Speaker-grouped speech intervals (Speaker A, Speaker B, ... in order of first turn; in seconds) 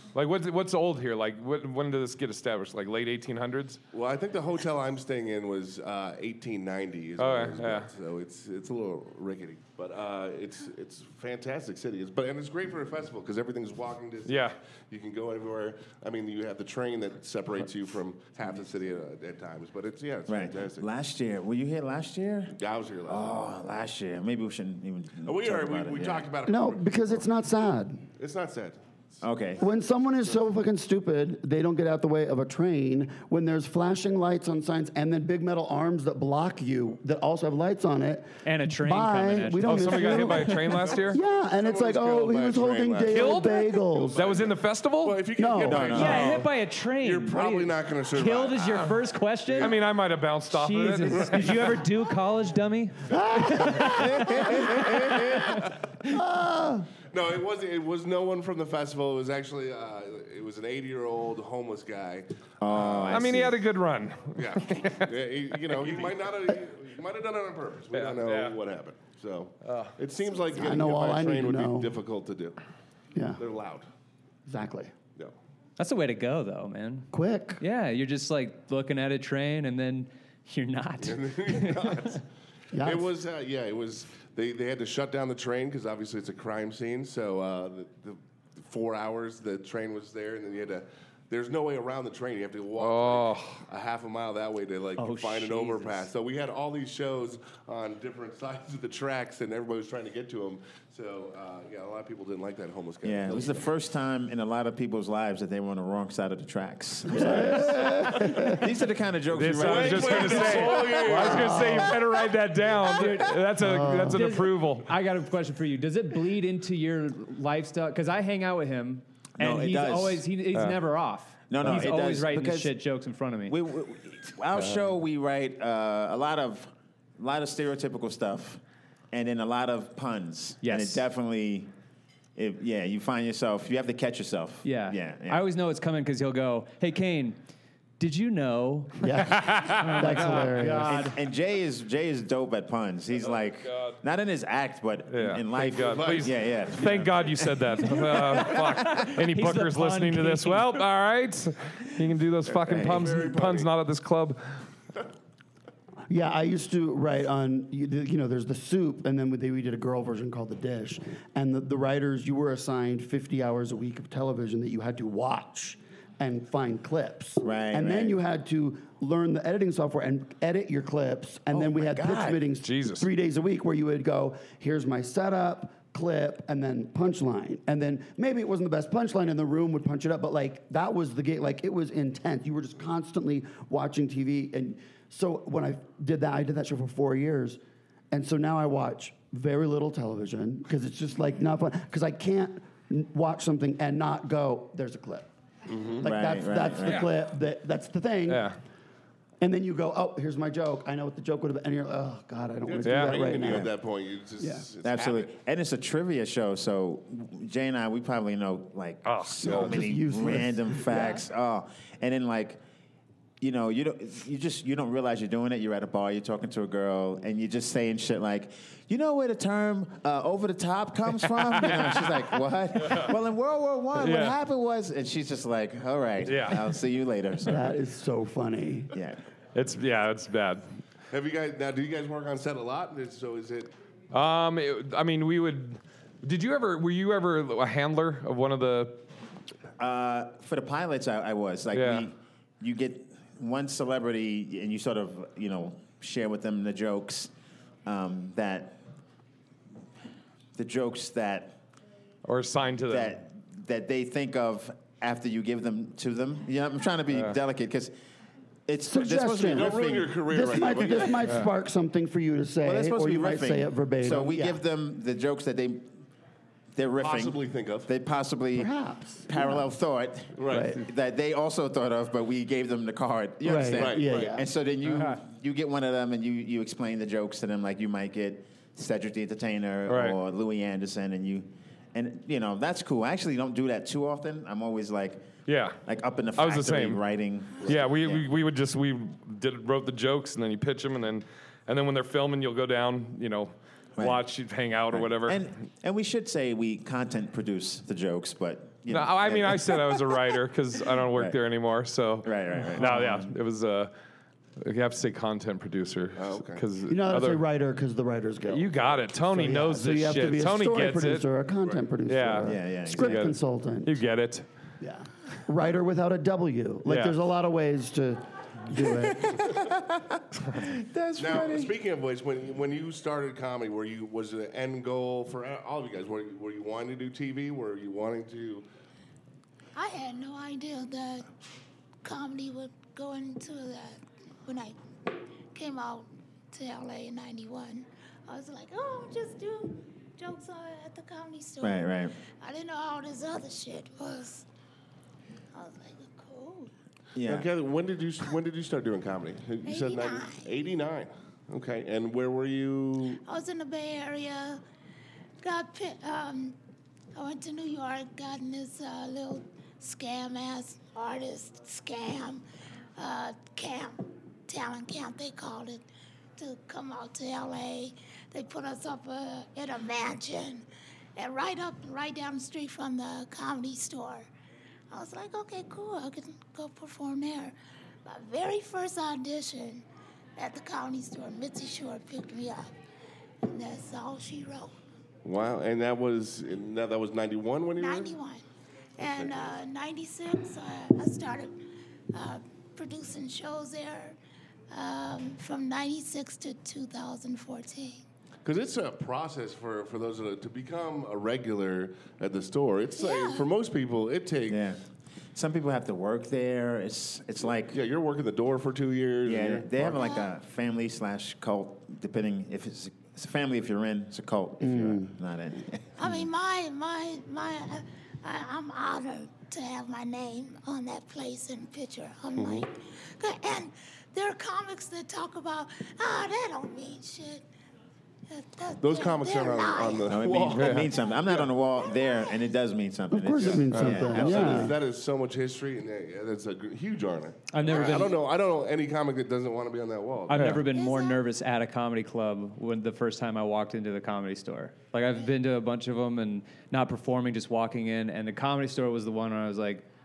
Speaker A: 0.1-3.8, 7.2-7.9, 14.3-14.6, 39.6-41.2, 43.1-45.2, 49.6-51.7, 63.1-65.1, 65.7-66.1, 67.9-68.6, 69.6-70.0, 92.8-93.6, 109.3-114.9, 124.6-124.8, 139.3-140.4, 143.3-144.0, 145.1-154.4, 172.6-173.1, 198.3-198.6, 202.8-203.5, 209.0-209.8, 221.6-222.1, 222.8-223.1, 224.0-224.3, 226.3-226.8, 229.6-230.6, 234.1-239.0, 241.7-242.1, 252.2-253.2, 279.9-280.2, 285.5-285.8, 286.4-287.0, 287.6-295.5, 298.9-303.9, 304.6-307.4, 308.4-311.3, 312.1-314.5, 316.9-317.2, 430.5-430.9, 433.7-434.1, 440.3-440.7
Speaker B: 3.9-20.9, 22.5-23.3, 25.2-27.2, 28.2-29.2, 40.8-46.5, 47.0-48.9, 49.5-49.8, 51.1-51.7, 57.1-63.3, 64.4-72.6, 73.4-73.8, 81.0-82.2, 82.8-103.7, 109.6-112.0, 145.6-147.1, 152.5-153.7, 195.7-196.1, 202.7-205.3, 231.1-233.7, 259.5-261.4, 267.0-267.9, 270.4-270.8, 273.7-274.4, 306.2-306.6, 321.2-328.6, 347.2-353.2, 385.2-388.1, 389.1-389.5, 398.4-404.6, 407.5-410.0, 422.4-422.7, 428.8-431.5, 433.4-440.4
Speaker C: 20.3-22.5, 23.1-26.3, 29.2-29.6, 45.6-46.5, 53.9-55.5, 62.6-63.6, 103.0-111.0, 119.4-120.2, 121.5-122.8, 123.5-128.6, 129.1-131.7, 132.4-135.4, 140.8-147.8, 152.7-153.1, 167.4-168.2, 171.5-172.4, 196.0-197.1, 203.4-203.7, 204.8-212.6, 213.4-227.7, 228.9-229.2, 239.8-247.3, 247.9-248.8, 250.6-251.6, 252.9-257.9, 258.7-260.9, 262.6-265.9, 266.7-268.7, 269.3-288.3, 294.0-294.3, 294.9-300.3, 301.0-301.4, 302.2-303.3, 312.4-313.3, 319.3-321.8, 341.6-342.1, 347.1-347.5, 404.5-404.8, 405.4-407.8, 409.2-416.3, 430.1-434.8
Speaker D: 26.5-28.1, 29.6-44.2, 45.4-46.0, 53.1-54.5, 56.1-56.9, 70.5-72.0, 73.2-73.4, 74.5-74.9, 77.1-77.6, 82.7-83.1, 107.1-108.7, 111.1-112.0, 113.6-114.2, 139.0-141.0, 156.1-187.6, 188.1-195.3, 196.0-198.5, 199.4-203.7, 204.4-204.7, 209.4-211.3, 227.5-228.9, 258.8-264.6, 268.6-269.7, 270.5-270.8, 273.4-274.5, 306.9-314.0, 314.8-319.6, 414.6-415.1, 433.1-434.8
Speaker E: 38.4-40.8, 45.9-49.8, 50.5-54.6, 55.3-55.6, 75.8-77.1, 77.6-82.2, 95.0-96.1, 112.8-113.4, 114.1-123.5, 130.6-131.0, 134.6-137.4, 138.0-141.2, 148.0-150.8, 437.5-438.1, 440.3-449.9
Speaker F: 329.8-331.3, 332.0-334.8, 335.5-344.5, 345.5-346.7, 349.6-350.6, 353.2-354.6, 355.4-356.6, 357.1-362.4, 363.0-365.9, 366.4-374.3, 374.9-379.9, 380.4-382.7, 383.4-384.8, 387.8-388.4, 389.0-391.6, 392.1-394.2, 394.7-398.0, 403.0-403.5, 409.9-410.3, 416.0-427.5, 428.3-430.2, 431.8-432.5, 437.7-438.1, 440.7-441.2